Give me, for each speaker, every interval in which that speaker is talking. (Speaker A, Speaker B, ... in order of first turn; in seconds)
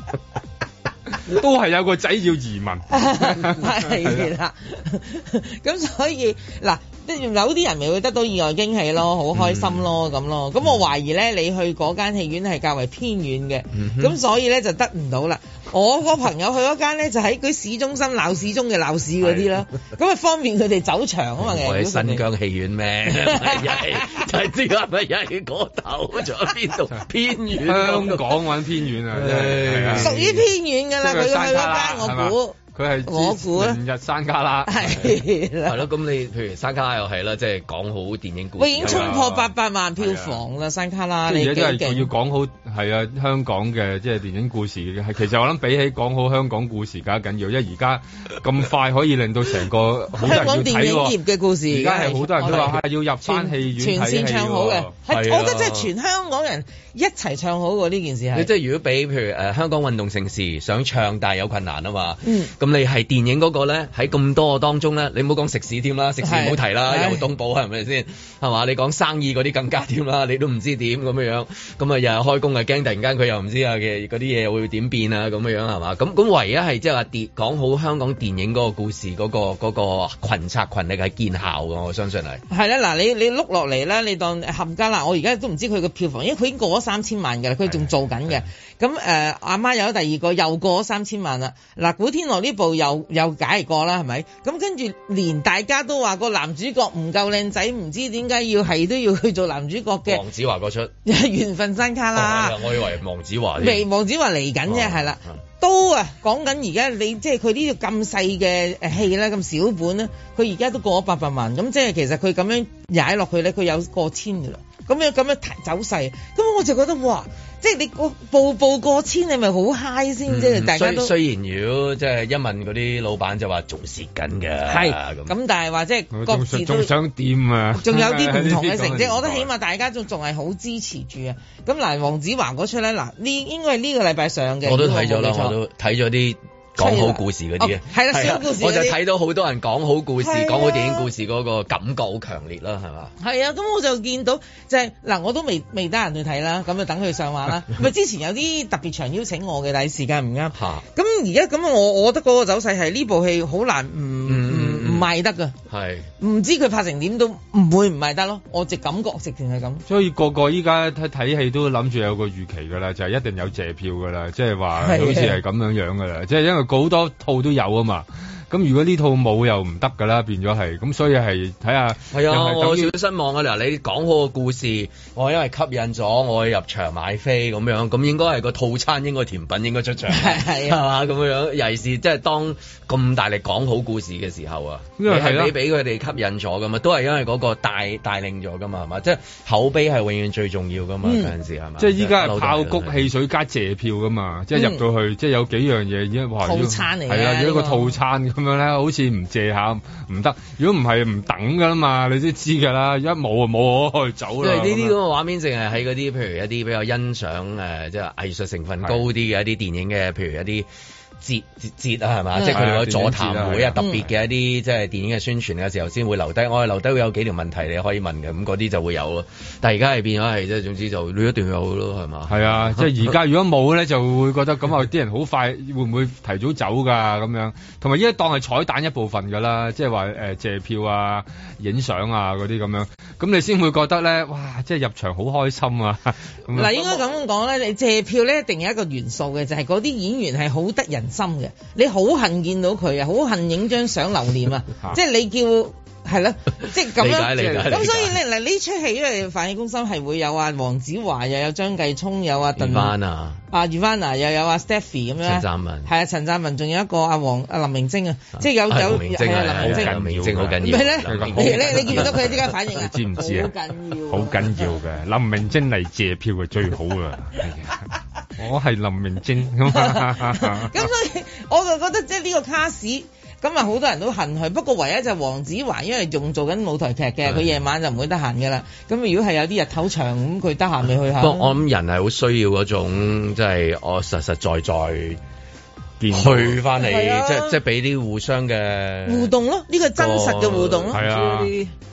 Speaker A: 1.2-4.3, 27.6-30.3, 31.0-35.0, 38.8-40.4, 41.3-51.1, 51.7-54.9, 126.1-129.5, 159.9-172.9, 185.0-185.5, 191.8-204.9, 212.5-213.8, 222.3-236.8, 259.3-270.9, 286.0-286.6, 290.9-291.6
Speaker B: 2.9-22.2, 23.3-23.8, 30.0-33.8, 34.7-35.8, 38.6-42.1, 50.2-58.5, 62.2-62.5, 66.2-67.2, 82.5-100.2, 101.0-102.6, 103.6-121.1, 124.7-126.9, 127.8-135.5, 136.8-139.0, 140.2-141.1, 143.2-155.5, 156.2-159.8, 164.8-165.4, 180.1-180.8, 191.0-191.3, 194.5-194.8, 196.4-197.9, 212.3-212.6, 213.8-214.0, 236.5-252.9, 253.5-260.0, 260.6-264.7, 269.7-281.5, 286.8-287.6, 289.1-291.0
Speaker C: 9.3-9.8, 13.7-14.2, 19.2-19.5, 21.4-28.4, 29.1-30.4, 35.6-39.2, 55.1-55.9, 58.3-82.4, 100.0-100.9, 102.1-103.9, 104.7-105.4, 120.3-125.3, 134.6-143.1, 150.5-150.8, 154.2-155.1, 155.7-156.1, 172.1-193.1, 204.4-210.7, 211.2-223.1, 246.9-248.2, 252.6-253.4, 255.2-255.9, 258.4-262.5, 281.2-285.2, 286.1-289.3, 289.9-291.5